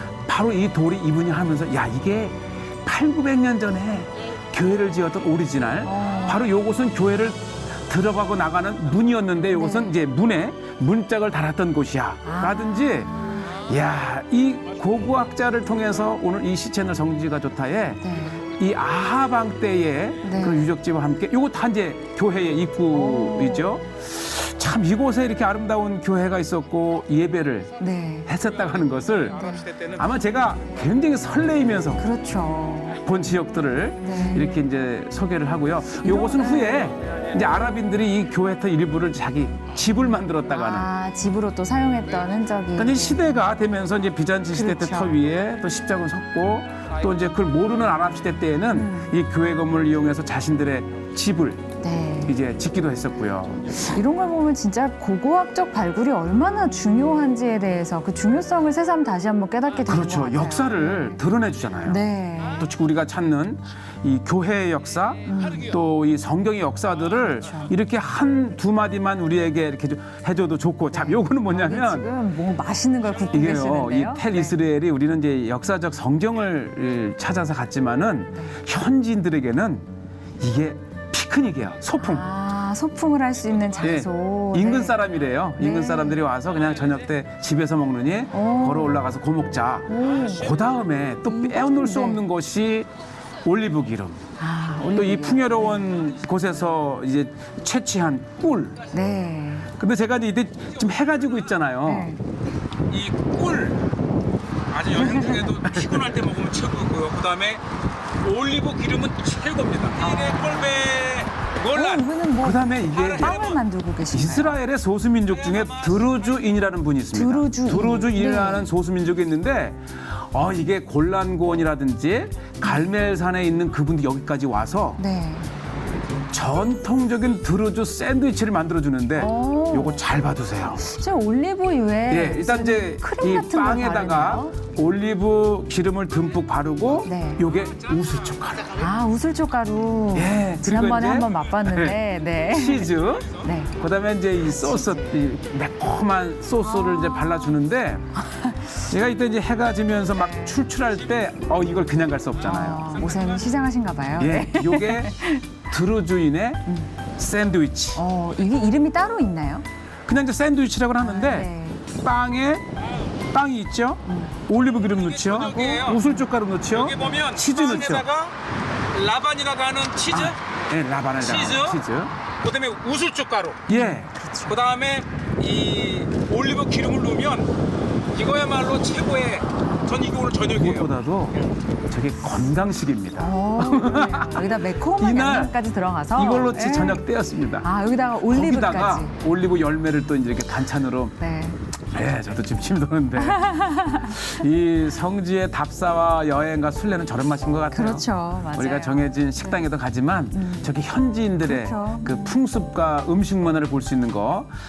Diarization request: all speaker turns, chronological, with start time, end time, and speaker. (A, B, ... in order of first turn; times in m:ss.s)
0:00.2-0:27.7 A
0:05.8-0:06.4 B
0:09.5-0:09.9 B
0:12.2-0:13.6 B
0:18.0-0:18.4 B
0:20.2-0:20.7 B
0:22.9-0:23.8 B
0:27.8-0:28.3 B
0:28.3-0:32.0 A
0:29.3-0:29.8 B
0:32.0-0:33.0 B
0:33.0-0:40.9 A
0:34.0-0:34.6 B
0:36.0-0:36.9 B
0:40.5-0:43.4 B
0:42.8-0:51.6 A
0:44.5-0:45.2 B
0:48.7-0:49.1 B
0:51.8-0:52.4 B
0:52.2-0:53.8 A
0:53.6-1:01.2 B
0:59.9-1:02.0 A
1:01.8-1:02.7 B
1:02.6-1:12.1 A
1:05.2-1:05.7 B
1:07.3-1:07.7 B
1:10.9-1:14.5 B
1:13.3-1:19.9 A
1:20.4-1:22.2 A
1:22.0-1:25.0 B
1:23.8-1:32.9 A
1:25.6-1:26.2 B
1:28.3-1:29.0 B
1:29.9-1:30.5 B
1:31.3-1:32.2 B
1:33.4-1:34.2 A
1:34.4-1:35.9 B
1:34.9-1:38.8 A
1:38.9-1:39.7 B
1:39.8-1:42.1 A
1:41.8-1:42.2 B
1:42.9-1:43.8 C
1:44.7-1:47.6 C
1:44.9-1:45.7 B
1:45.4-1:46.1 A
1:48.2-1:52.0 C
1:49.9-1:50.8 B
1:51.7-1:54.6 B
1:52.4-1:53.4 A
1:52.9-1:53.6 C
1:54.1-2:05.0 A
1:55.5-1:56.0 C
1:57.1-1:58.7 B
2:05.0-2:05.5 B
2:06.3-2:10.9 A
2:09.1-2:10.0 B
2:10.8-2:14.6 B
2:12.1-2:18.8 A
2:17.0-2:17.4 B
2:18.8-2:23.8 B
2:20.1-2:22.0 A
2:22.5-2:28.1 A
2:24.5-2:25.2 B
2:26.6-2:27.5 B
2:28.2-2:28.8 B
2:28.8-2:33.0 A
2:30.2-2:30.6 B
2:32.4-2:35.5 B
2:34.2-2:35.1 A
2:35.7-2:36.6 A
2:37.2-2:38.0 A
2:38.0-2:39.6 B
2:40.0-2:42.7 A
2:41.0-2:41.8 B
2:43.3-2:48.1 A
2:44.1-2:44.3 B
2:45.0-2:46.0 C
2:45.4-2:46.3 B
2:46.7-2:48.4 C
2:48.9-2:50.4 C
2:50.1-2:52.1 A
2:51.2-2:51.8 C
2:52.4-2:53.7 C
2:53.7-2:54.1 A
2:53.7-2:54.6 B
2:54.5-2:57.5 C
2:58.1-3:00.9 C
3:00.4-3:05.5 A
3:03.2-3:07.0 B
3:06.2-3:07.7 A
3:07.6-3:09.2 B
3:08.3-3:11.2 A
3:11.2-3:11.6 B
3:11.9-3:24.5 A
3:13.2-3:14.3 B
3:17.7-3:19.6 B
3:20.3-3:20.8 B
3:21.4-3:22.4 B